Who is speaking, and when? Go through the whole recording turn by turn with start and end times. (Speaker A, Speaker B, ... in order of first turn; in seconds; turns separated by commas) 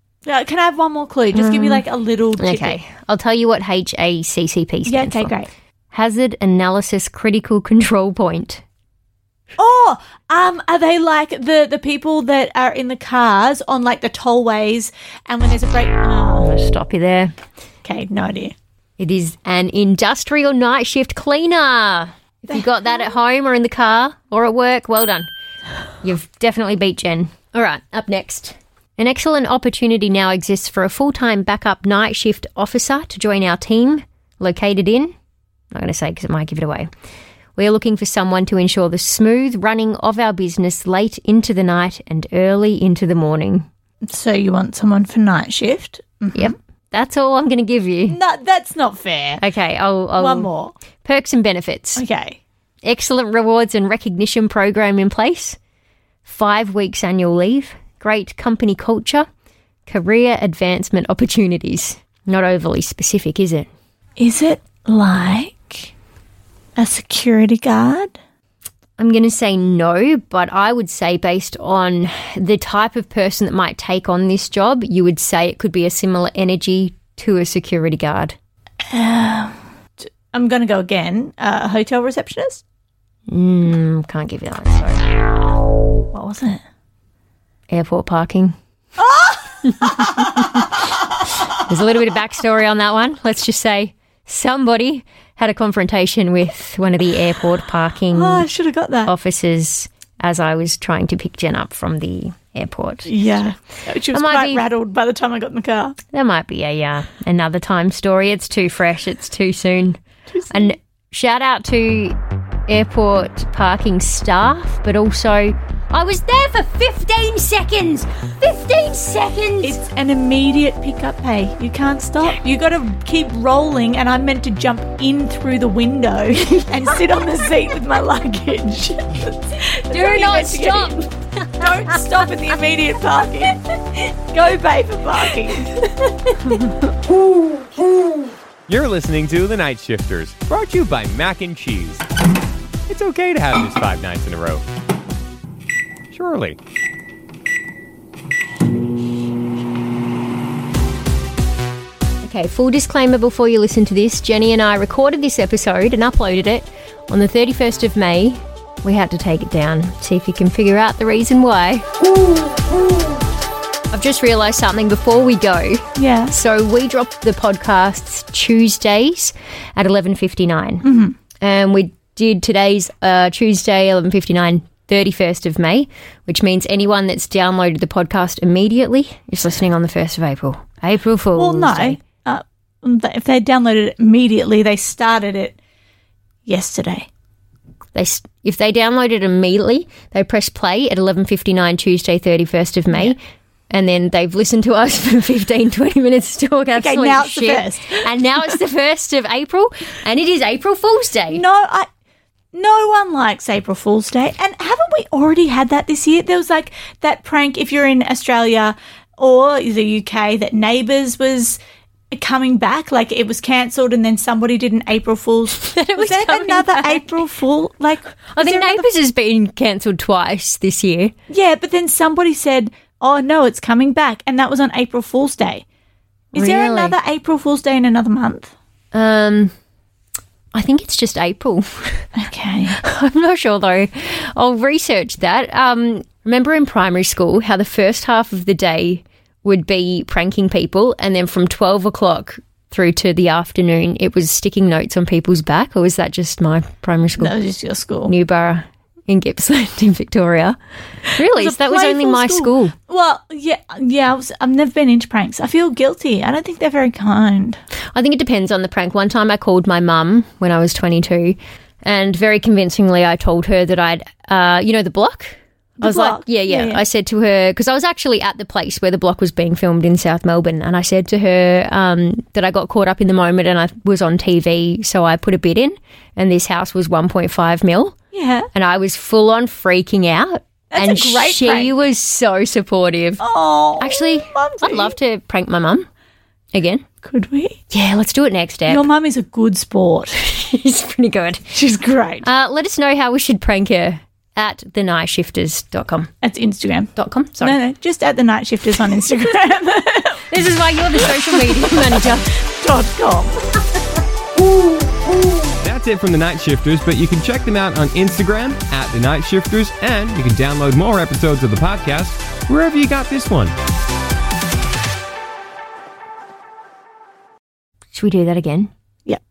Speaker A: 0.3-2.8, Speaker B: 1.3-1.9, Speaker B: 2.4-5.4, Speaker A: 4.9-5.5, Speaker B: 5.9-8.6, Speaker A: 9.6-16.5, Speaker B: 16.4-17.4, Speaker A: 17.8-18.6, Speaker B: 19.0-25.3, Speaker B: 26.0-35.1, Speaker B: 35.7-36.9, Speaker B: 37.6-43.7, Speaker A: 44.1-46.5, Speaker B: 46.3-48.2, Speaker A: 48.1-49.4, Speaker B: 49.4-50.5, Speaker A: 50.2-50.8, Speaker B: 51.0-52.0, Speaker A: 52.0-52.4, Speaker B: 52.8-55.6, Speaker B: 56.2-59.3, Speaker B: 59.9-63.7, Speaker A: 64.2-65.9, Speaker A: 66.8-68.2, Speaker B: 69.0-78.4, Speaker A: 78.9-82.6, Speaker B: 83.3-85.1, Speaker A: 86.1-86.6, Speaker B: 87.7-88.5, Speaker A: 89.0-90.3, Speaker B: 89.7-90.8, Speaker B: 91.5-98.5, Speaker A: 98.1-99.1, Speaker B: 99.0-103.4, Speaker A: 103.1-106.0, Speaker B: 104.1-104.7, Speaker B: 106.1-119.8, Speaker A: 110.3-110.8, Speaker A: 119.6-131.1, Speaker B: 129.9-132.0, Speaker A: 131.6-136.9, Speaker C: 138.7-142.1, Speaker C: 142.9-144.7, Speaker C: 146.1-146.6, Speaker B: 152.2-161.8, Speaker B: 163.9-182.0, Speaker A: 166.0-166.3, Speaker A: 170.8-171.2, Speaker A: 181.4-185.6, Speaker A: 186.5-187.1, Speaker B: 187.9-193.2, Speaker B: 193.7-201.4, Speaker A: 196.8-198.1, Speaker A: 201.3-201.9, Speaker A: 202.5-211.6, Speaker A: 212.1-218.9, Speaker B: 215.5-217.2, Speaker B: 218.3-221.1, Speaker A: 221.3-225.7, Speaker B: 226.3-227.0, Speaker A: 226.3-228.5, Speaker B: 228.9-229.5, Speaker B: 230.5-232.1, Speaker A: 232.2-232.8, Speaker B: 232.8-247.4, Speaker A: 247.2-248.1, Speaker B: 248.1-250.6, Speaker B: 251.1-252.7, Speaker A: 251.3-257.6, Speaker B: 257.9-278.0, Speaker A: 265.8-266.8, Speaker A: 278.1-278.5, Speaker B: 278.5-283.3, Speaker A: 280.7-281.7, Speaker A: 283.2-284.9, Speaker B: 283.8-285.9, Speaker B: 286.5-286.9, Speaker A: 287.0-287.6, Speaker B: 287.7-288.9, Speaker A: 288.7-290.2, Speaker B: 290.2-291.5, Speaker A: 291.5-292.3, Speaker B: 292.2-296.1, Speaker A: 296.2-300.2, Speaker B: 296.9-297.6, Speaker B: 300.3-302.4, Speaker A: 301.1-302.0, Speaker A: 302.6-303.7, Speaker C: 305.6-313.5, Speaker B: 317.9-318.7